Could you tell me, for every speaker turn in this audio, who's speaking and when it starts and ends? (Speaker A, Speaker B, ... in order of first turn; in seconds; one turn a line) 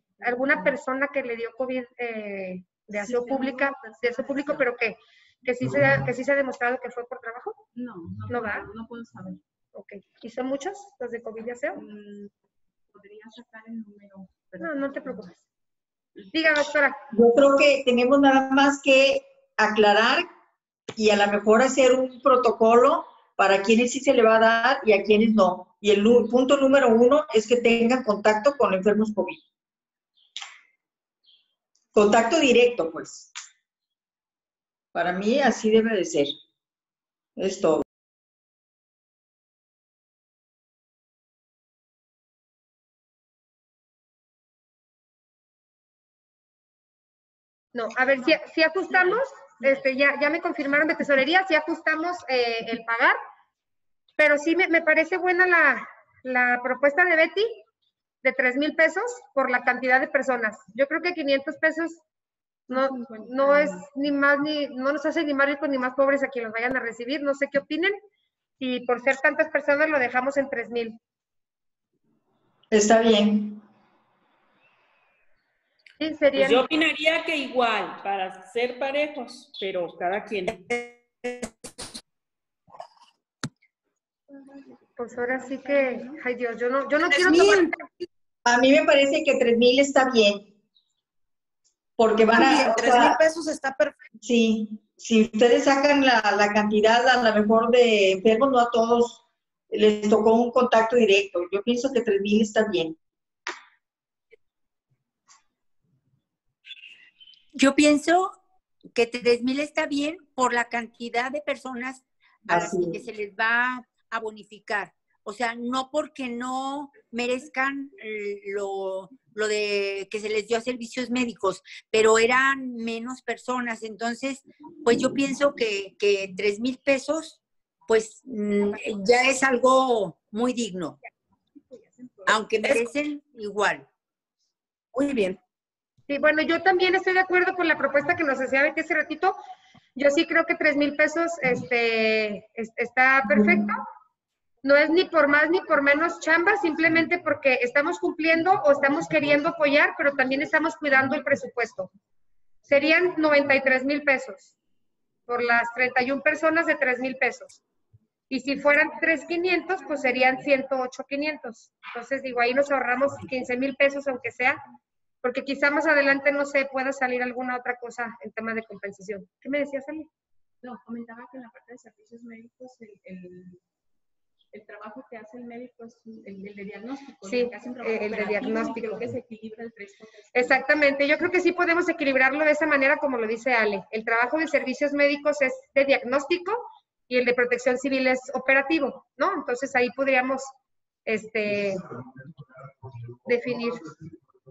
Speaker A: 0.2-0.7
Speaker B: 0.2-7.6
Speaker A: 2.9-4.7
Speaker A: 7.7-9.4
Speaker B: 8.3-8.7
Speaker B: 9.7-11.8
Speaker A: 11.7-12.3
Speaker A: 12.9-15.4
Speaker B: 14.6-15.4
Speaker B: 16.3-17.0
Speaker C: 17.1-20.3
Speaker C: 20.9-29.4
Speaker C: 31.9-33.3
Speaker C: 34.9-36.3
Speaker C: 37.4-37.8
Speaker B: 47.7-53.2
Speaker A: 48.9-49.8
Speaker B: 54.2-57.6
Speaker B: 58.2-62.0
Speaker A: 62.7-63.9
Speaker B: 62.7-68.0
Speaker B: 68.6-71.0
Speaker C: 72.7-73.6
Speaker B: 76.0-76.6
Speaker D: 76.3-80.6
Speaker E: 80.7-81.5
Speaker B: 85.0-87.8
Speaker A: 85.1-86.2
Speaker E: 87.1-88.0
Speaker C: 88.4-90.5
Speaker C: 92.0-93.2
Speaker E: 92.4-93.9
Speaker C: 94.2-103.0
Speaker F: 107.5-108.4
Speaker F: 108.9-130.9
Speaker C: 112.5-113.0
Speaker A: 131.6-132.5
Speaker F: 132.2-133.9
Speaker E: 134.9-135.4
Speaker B: 136.1-139.4
Speaker B: 139.9-143.8
Speaker B: 144.6-151.9
Speaker B: 152.7-154.5
Speaker B: 155.3-157.6
Speaker B: 158.3-164.6
Speaker B: 165.2-170.1
Speaker A: 170.6-173.6
Speaker A: 174.5-180.6
Speaker B: 177.2-179.1
Speaker B: 180.3-190.5
Speaker B: 191.1-191.9
Speaker B: 193.2-193.9